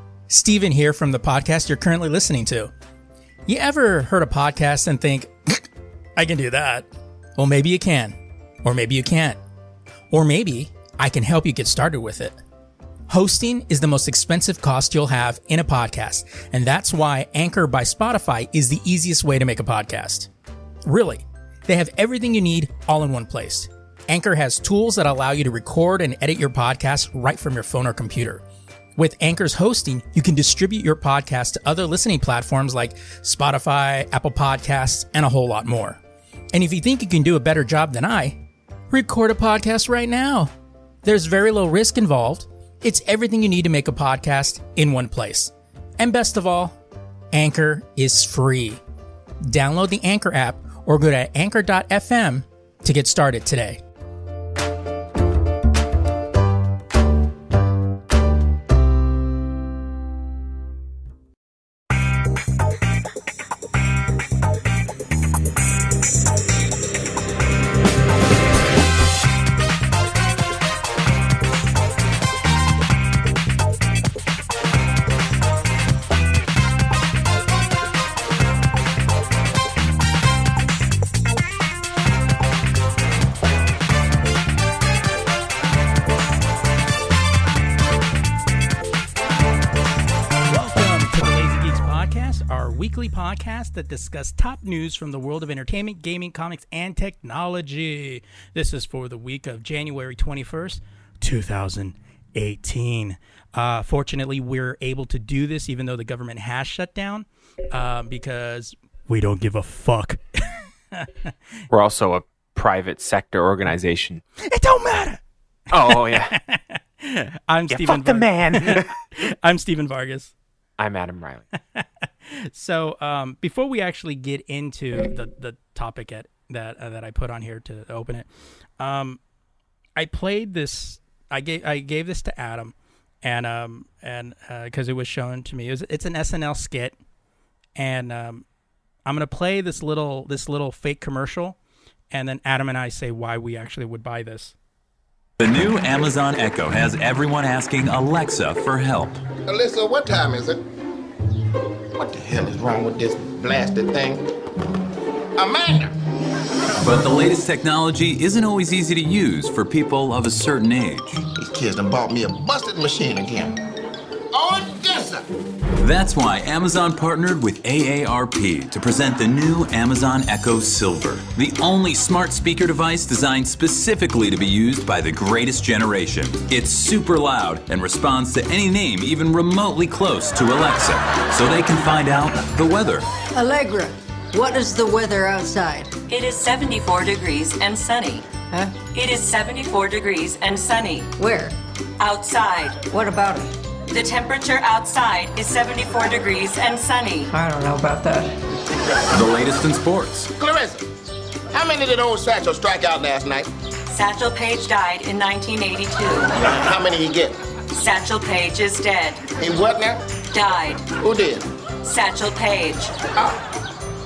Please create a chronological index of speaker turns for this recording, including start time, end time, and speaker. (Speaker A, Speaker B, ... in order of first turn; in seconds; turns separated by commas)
Speaker A: 0.3-2.7, Speaker A: 3.5-9.4, Speaker A: 10.1-12.4, Speaker A: 13.1-20.3, Speaker A: 20.9-28.4, Speaker A: 29.0-36.0, Speaker A: 36.5-40.5, Speaker A: 41.0-46.8, Speaker A: 47.3-48.8, Speaker A: 49.5-53.8, Speaker A: 90.5-111.3, Speaker B: 111.7-114.2, Speaker A: 114.4-115.2, Speaker B: 115.7-116.4, Speaker A: 115.8-120.3, Speaker B: 117.7-119.0, Speaker B: 120.8-121.5, Speaker A: 121.7-128.3, Speaker A: 128.8-129.2, Speaker A: 129.9-137.0, Speaker A: 137.8-138.4, Speaker A: 139.1-141.6, Speaker A: 142.1-144.5, Speaker C: 145.4-149.2, Speaker D: 149.4-150.6, Speaker D: 151.9-154.2, Speaker D: 155.4-155.9, Speaker C: 156.8-161.2, Speaker D: 161.3-163.6, Speaker D: 164.3-165.2, Speaker C: 165.8-183.1, Speaker E: 183.3-185.9, Speaker F: 186.1-188.2, Speaker E: 188.5-188.8, Speaker F: 188.9-191.1, Speaker E: 191.2-191.5, Speaker F: 192.0-192.8, Speaker E: 192.9-193.5, Speaker F: 193.9-197.3, Speaker E: 197.3-198.3, Speaker C: 199.1-200.3, Speaker D: 200.4-200.9, Speaker D: 201.5-203.5, Speaker F: 203.9-206.3, Speaker D: 206.4-207.3, Speaker F: 207.7-209.2, Speaker D: 209.4-210.0, Speaker F: 210.3-210.9, Speaker D: 211.0-211.5, Speaker F: 211.8-212.9